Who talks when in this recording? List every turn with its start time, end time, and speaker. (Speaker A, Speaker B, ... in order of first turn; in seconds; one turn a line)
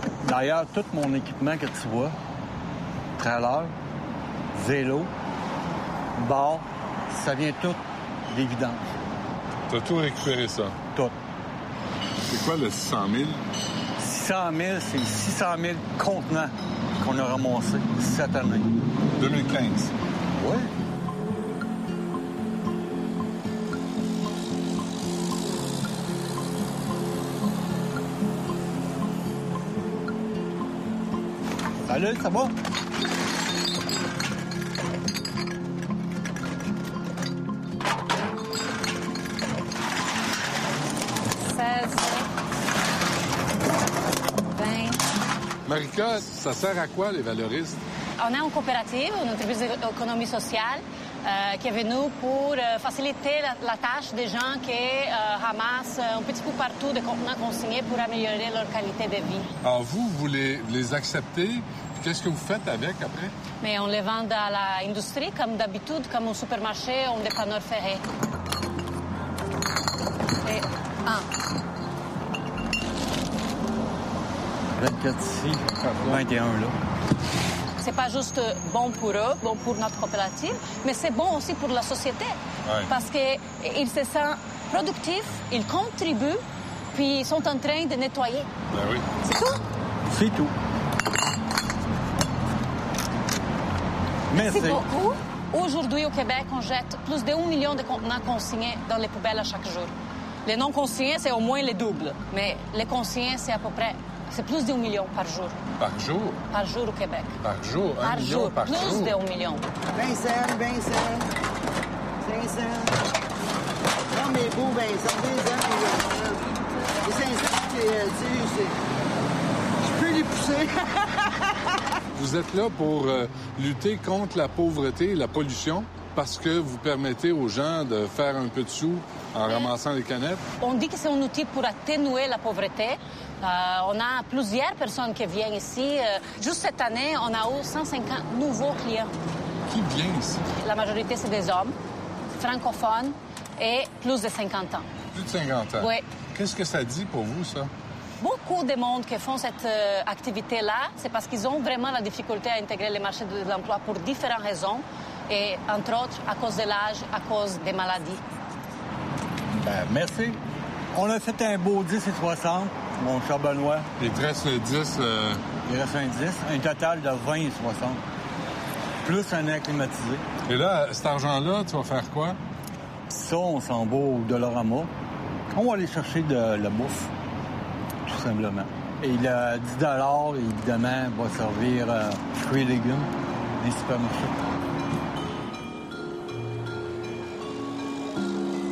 Speaker A: 0.2-2.1
Speaker A: 3.2-3.7
Speaker A: 4.5-5.1
Speaker A: 6.1-8.9
Speaker B: 9.7-10.8
Speaker B: 12.3-13.4
Speaker A: 14.0-18.7
Speaker B: 19.2-19.9
Speaker A: 20.3-20.7
Speaker A: 31.9-32.5
Speaker C: 41.4-42.3
Speaker C: 44.5-45.0
Speaker B: 45.6-47.8
Speaker C: 48.2-59.5
Speaker B: 59.6-63.3
Speaker C: 63.6-68.0
Speaker C: 70.4-71.3
Speaker A: 74.8-76.8
Speaker C: 77.8-82.3
Speaker B: 82.6-82.9
Speaker C: 82.9-86.4
Speaker C: 86.9-88.5
Speaker B: 88.7-89.1
Speaker C: 89.2-89.6
Speaker A: 90.1-90.5
Speaker A: 94.3-94.8
Speaker C: 94.4-99.9
Speaker C: 100.4-105.6
Speaker B: 105.8-106.4
Speaker C: 106.5-107.3
Speaker B: 107.4-109.2
Speaker C: 108.0-109.6
Speaker D: 109.9-111.3
Speaker D: 112.2-113.0
Speaker D: 114.1-118.8
Speaker D: 119.8-121.3
Speaker B: 122.1-130.4
Speaker C: 130.6-139.1
Speaker B: 139.7-140.5
Speaker C: 140.6-141.8
Speaker C: 142.4-144.9
Speaker B: 145.1-147.7
Speaker C: 145.8-146.0
Speaker C: 148.2-158.2
Speaker A: 159.5-160.4
Speaker A: 160.9-163.9
Speaker B: 164.0-165.4
Speaker A: 165.6-168.0
Speaker A: 169.0-170.2
Speaker B: 170.5-172.4
Speaker A: 173.1-174.9
Speaker A: 175.5-177.1
Speaker A: 178.0-184.4